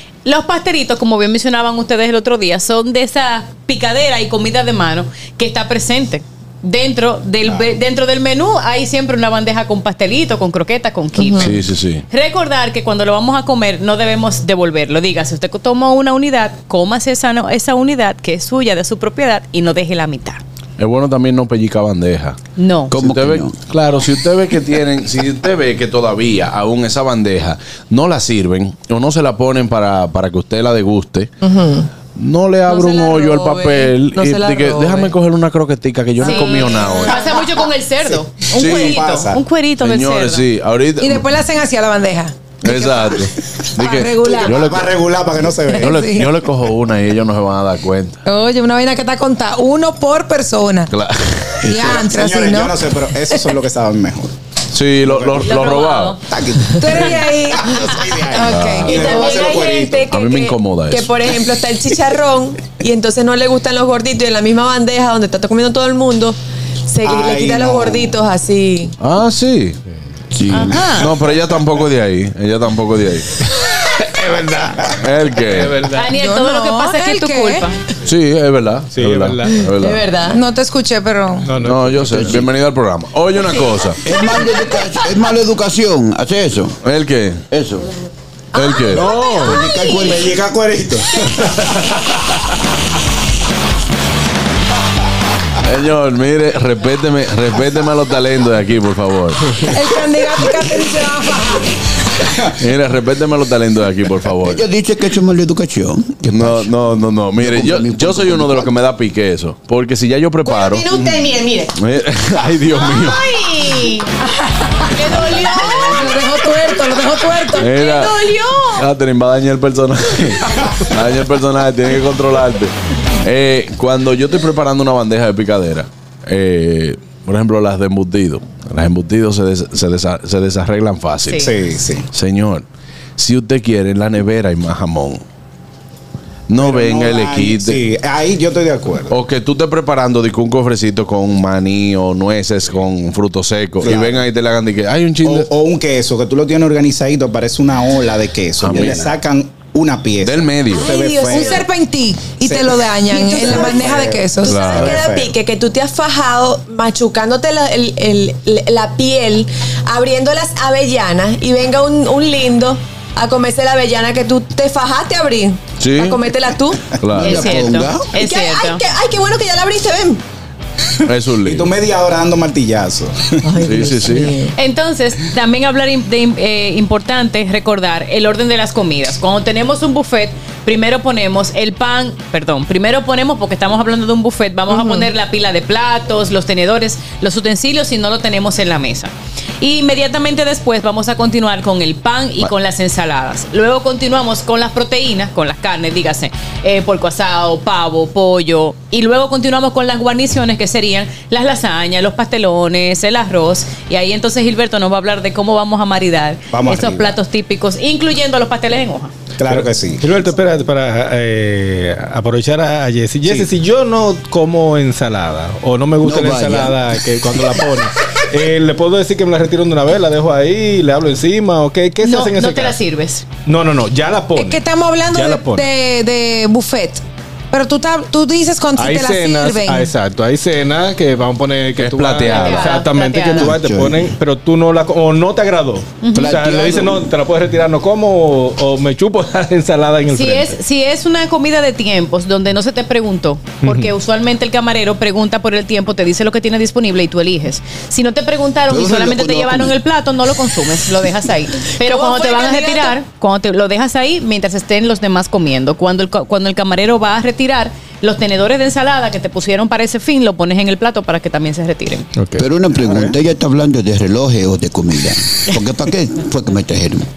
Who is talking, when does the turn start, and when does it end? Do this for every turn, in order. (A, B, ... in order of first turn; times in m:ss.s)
0:00.2-0:11.6 A
0:07.4-0:07.7 B
0:11.2-0:11.4 C
0:11.4-0:12.0 D
0:12.1-0:20.4 A
0:20.8-0:22.4 D
0:22.6-0:22.9 A
0:22.9-0:23.5 E
0:22.9-0:31.3 D
0:31.4-0:31.9 C
0:32.1-0:37.2 D
0:32.7-0:35.1 C
0:36.2-0:40.4 A
0:36.2-0:37.4 C
0:38.5-0:39.4 B
0:38.6-0:39.0 D
0:39.8-0:41.3 D
0:41.0-0:43.2 F
0:42.6-0:44.9 D
0:43.8-0:44.6 F
0:44.2-0:46.2 B
0:45.8-0:46.3 F
0:45.8-0:48.2 D
0:48.2-0:50.9 F
0:50.9-0:51.6 D
0:51.6-0:52.8 F
0:51.6-0:54.3 B
0:54.7-0:56.2 D
0:55.0-0:55.6 B
0:55.4-0:56.2 A
0:56.2-1:00.1 B
0:56.8-0:59.2 F
0:58.4-0:59.3 D
0:58.9-1:08.9 C
1:00.1-1:01.1 D
1:07.0-1:08.2 B
1:09.0-1:09.8 D
1:10.3-1:11.1 E
1:10.5-1:11.1 A
1:11.0-1:13.3 D
1:14.0-1:16.1 G
1:15.0-1:15.8 D
1:15.9-1:17.7 A
1:16.1-1:17.6 F
1:18.0-1:20.0 D
1:18.9-1:19.6 G
1:19.8-1:20.4 C
1:20.3-1:21.5 F
1:21.4-1:22.2 G
1:21.6-1:24.0 D
1:22.0-1:22.5 E
1:24.0-1:26.8 E
1:26.8-1:27.4 D
1:27.5-1:27.9 E
1:28.5-1:29.1 D
1:28.5-1:30.2 C
1:29.0-1:29.6 G
1:29.4-1:30.3 E
1:29.9-1:31.8 B
1:35.6-1:39.6 D
1:39.6-1:41.7 F
1:42.6-1:44.6 D
1:44.4-1:46.7 E
1:46.3-1:51.2 D
1:47.4-1:48.7 E
1:50.4-1:51.7 C
1:51.8-1:53.2 D
1:53.0-1:54.1 A
1:54.9-1:56.1 A
1:55.1-1:55.8 C
1:55.8-1:57.8 F
1:57.5-2:11.5 D
1:57.8-1:58.7 C
2:11.4-2:12.1 B
2:12.1-2:12.6 D
2:13.2-2:15.2 D
2:16.5-2:17.8 D
2:16.6-2:19.2 B
2:19.1-2:25.5 D
2:23.8-2:24.2 B
2:25.2-2:31.7 B
2:28.6-2:29.1 D
2:30.2-2:30.9 D
2:30.7-2:34.6 F
2:32.4-2:35.3 B
2:33.2-2:33.8 C
2:34.4-2:47.0 C
2:34.4-2:35.0 D
2:45.8-2:46.2 D
2:47.0-2:47.5 D
2:47.1-2:48.1 E
2:47.2-2:48.8 A
2:48.1-2:50.2 C
2:51.0-2:51.7 D
2:51.4-2:53.4 B
2:53.4-2:54.5 C
2:53.6-2:54.3 D
2:54.6-3:29.1 A
3:04.7-3:05.1 F
3:26.5-3:27.2 B
3:29.4-3:30.3 B
3:29.5-3:42.8 G
3:36.0-3:36.8 E
3:42.0-3:43.2 A
3:43.4-3:45.7 G
3:44.3-3:49.9 F
3:48.8-4:00.6 G
3:51.8-3:52.8 D
3:52.2-3:53.5 A
3:53.2-3:54.1 E
3:56.0-3:56.5 A
3:56.1-3:57.1 E
4:00.1-4:22.1 A
4:03.6-4:03.9 G
4:08.7-4:09.8 E
4:11.8-4:13.0 C
4:22.2-4:22.5 G
4:22.4-4:27.1 E